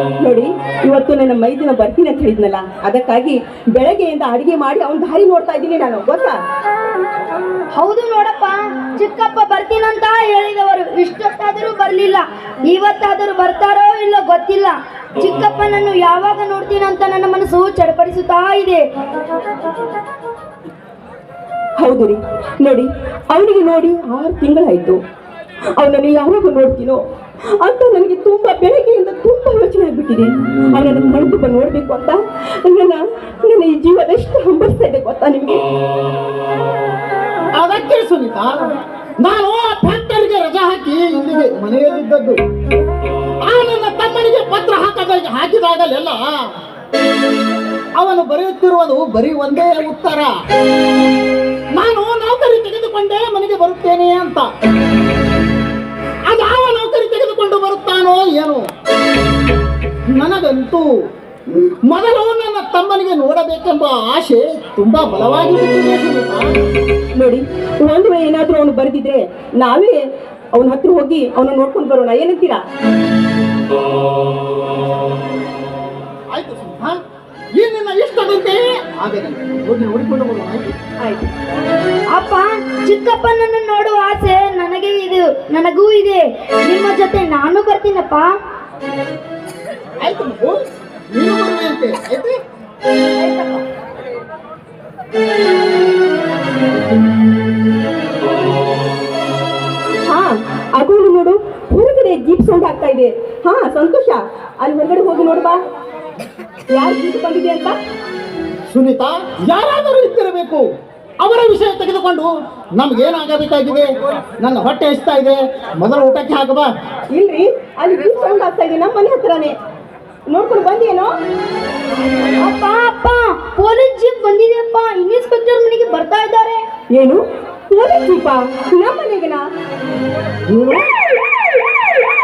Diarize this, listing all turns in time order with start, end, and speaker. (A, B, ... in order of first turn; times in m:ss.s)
0:00.2-0:06.4 A
0:07.8-0:18.9 B
0:21.8-0:25.0 A
0:25.8-0:35.6 A
0:37.5-0:38.7 C
0:39.2-0:42.4 C
0:43.4-0:46.4 C
0:48.0-0:50.3 C
0:51.7-0:54.5 C
0:56.3-0:58.7 C
1:00.1-1:00.9 C
1:01.5-1:06.6 C
1:07.2-1:12.6 A
1:16.3-1:17.0 C
1:17.6-1:20.7 C
1:21.0-1:21.3 A
1:22.1-1:28.4 B
1:30.0-1:30.6 C
1:31.1-1:32.4 C
1:33.2-1:33.6 A
1:40.1-1:45.6 A
1:46.7-1:47.8 A
1:48.7-1:50.7 C
1:51.2-1:56.7 C
1:57.1-1:59.6 A
2:00.3-2:01.2 A
2:02.4-2:06.6 B
2:06.9-2:09.5 A
2:10.5-2:10.9 C